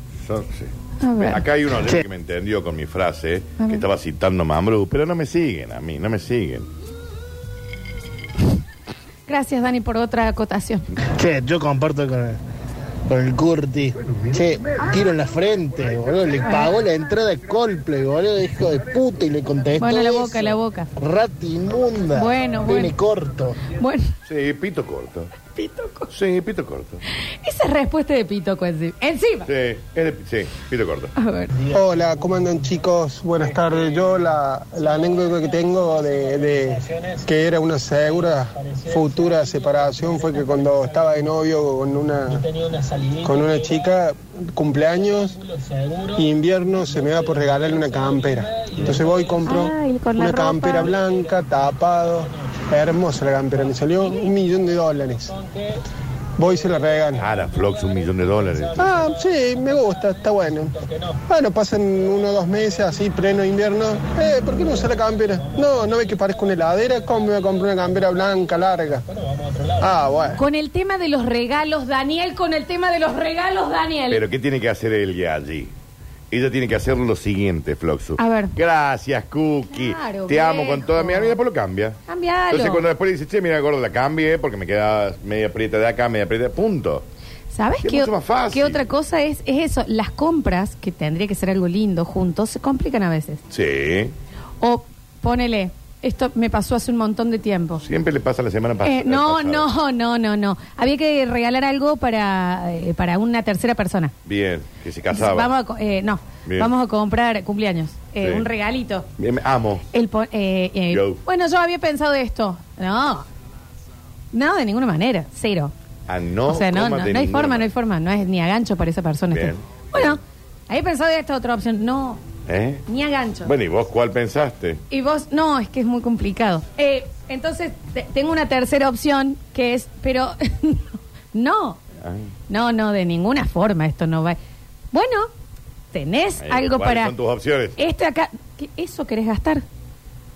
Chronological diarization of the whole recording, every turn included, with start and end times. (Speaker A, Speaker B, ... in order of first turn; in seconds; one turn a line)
Speaker A: 0.2-6.7
Speaker B: 1.0-1.4
Speaker B: 3.6-3.9
Speaker B: 9.3-10.9
Speaker C: 11.2-12.4
Speaker C: 13.1-20.4
Speaker B: 19.8-20.9
Speaker C: 21.0-23.6
Speaker B: 22.1-22.9
Speaker B: 23.7-24.1
Speaker A: 24.2-25.3
Speaker B: 25.5-26.1
Speaker A: 26.1-27.0
Speaker B: 27.4-29.5
Speaker A: 29.4-31.1
Speaker B: 31.2-31.5
Speaker D: 31.7-32.7
Speaker E: 31.7-42.4
Speaker D: 33.4-37.3
Speaker D: 37.9-41.4
Speaker D: 42.3-44.0
Speaker E: 43.2-45.4
Speaker D: 44.7-49.7
Speaker E: 46.1-55.3
Speaker B: 49.4-50.9
Speaker D: 50.7-55.8
Speaker E: 56.4-57.3
Speaker D: 56.4-61.2
Speaker A: 57.2-58.9
Speaker E: 58.8-60.7
Speaker E: 61.3-69.0
Speaker D: 61.9-70.0
Speaker E: 69.8-70.4
Speaker B: 70.3-74.2
Speaker A: 74.1-75.7
Speaker A: 76.3-82.0
Speaker B: 78.2-78.5
Speaker B: 79.7-81.3
Speaker B: 82.1-82.8
Speaker A: 82.5-87.0
Speaker B: 87.5-93.4
Speaker A: 87.8-88.8
Speaker A: 93.5-94.1
Speaker B: 94.6-97.8
Speaker A: 97.8-99.7
Speaker B: 98.8-104.1
Speaker A: 104.2-105.5
Speaker B: 105.1-109.1
Speaker A: 106.5-106.7
Speaker A: 108.2-108.5
Speaker A: 109.2-109.8
Speaker B: 109.9-113.2
Speaker A: 110.9-111.2
Speaker B: 114.3-115.7
Speaker A: 116.1-117.7
Speaker B: 116.5-122.2
Speaker A: 119.3-120.2
Speaker A: 122.5-122.8
Speaker B: 122.9-123.5
Speaker A: 123.4-124.8
Speaker B: 124.9-131.8
Speaker B: 132.5-134.4
Speaker B: 134.9-135.3
Speaker B: 135.9-137.1
Speaker A: 136.4-137.8
Speaker B: 137.8-139.6